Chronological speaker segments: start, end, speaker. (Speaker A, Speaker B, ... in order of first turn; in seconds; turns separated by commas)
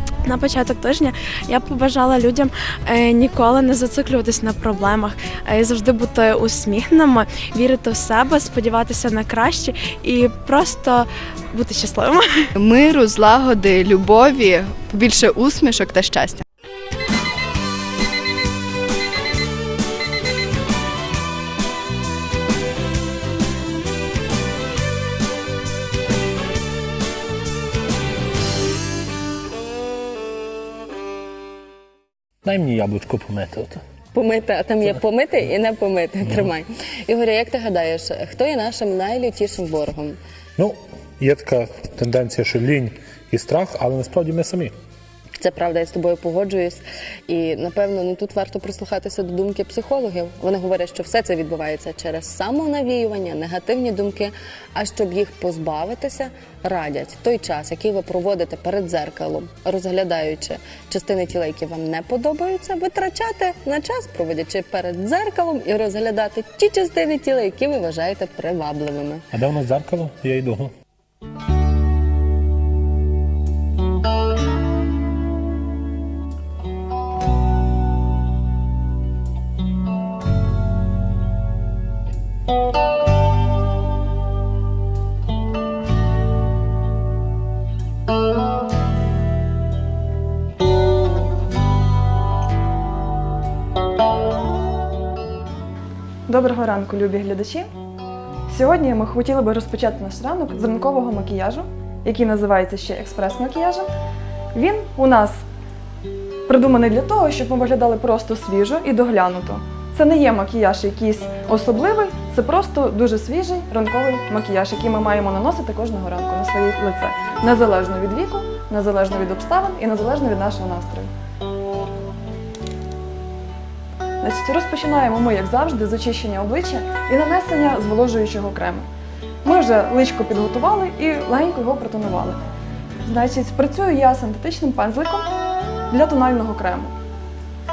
Speaker A: 0.2-12.5, Speaker B: 12.6-16.4, Speaker C: 32.4-33.8, Speaker D: 34.1-40.2, Speaker C: 40.6-44.7, Speaker D: 45.4-69.2, Speaker C: 69.3-70.7, Speaker E: 96.3-97.7, Speaker E: 98.5-103.9, Speaker E: 104.5-105.4, Speaker E: 106.5-121.1, Speaker E: 124.2-128.8, Speaker E: 129.4-132.4, Speaker E: 133.0-135.3, Speaker E: 135.9-136.9